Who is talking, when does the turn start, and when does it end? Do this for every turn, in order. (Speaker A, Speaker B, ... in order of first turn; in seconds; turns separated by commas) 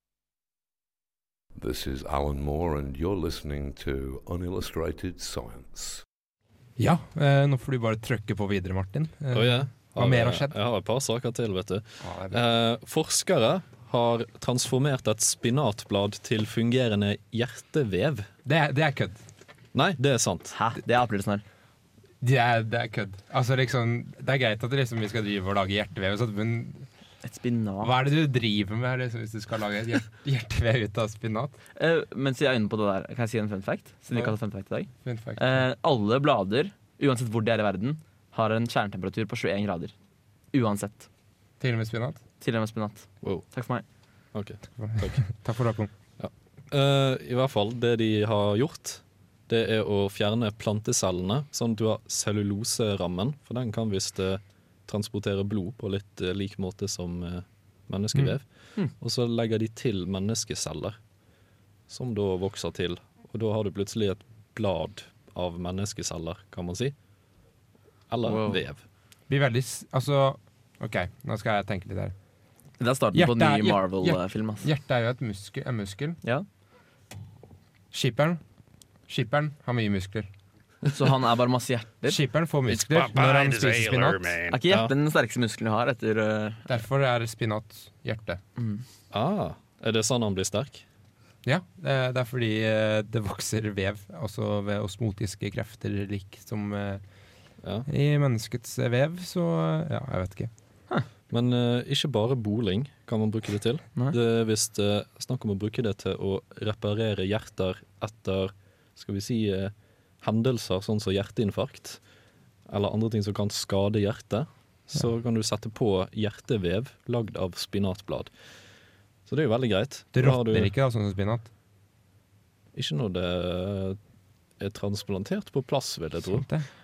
Speaker A: 1.5-6.0, Speaker B: 6.8-10.5, Speaker C: 9.3-18.3, Speaker B: 12.0-12.4, Speaker B: 18.4-19.2, Speaker C: 19.7-20.6, Speaker D: 20.5-21.4, Speaker B: 22.2-26.9, Speaker D: 27.2-27.9, Speaker B: 27.8-31.6, Speaker D: 31.8-39.9, Speaker B: 34.1-35.6, Speaker D: 40.5-41.1, Speaker B: 41.6-42.2, Speaker D: 42.4-43.8, Speaker C: 43.2-45.4, Speaker B: 44.8-45.9, Speaker C: 46.2-61.0, Speaker C: 61.9-66.9, Speaker C: 68.1-68.8, Speaker D: 68.2-68.6, Speaker B: 69.3-72.2, Speaker D: 72.8-74.7, Speaker B: 73.1-76.2, Speaker B: 77.9-78.4, Speaker B: 79.1-80.3, Speaker D: 80.9-82.2, Speaker B: 82.0-84.4, Speaker C: 83.6-84.9, Speaker D: 84.5-86.7, Speaker B: 86.7-88.4, Speaker D: 88.6-88.8, Speaker C: 89.1-90.8, Speaker B: 91.4-97.1, Speaker C: 97.6-97.9, Speaker B: 97.9-100.5, Speaker C: 101.3-112.0, Speaker C: 112.7-118.3, Speaker C: 119.2-120.7, Speaker B: 120.1-121.5, Speaker C: 122.7-124.0, Speaker C: 124.6-126.4, Speaker B: 126.2-126.7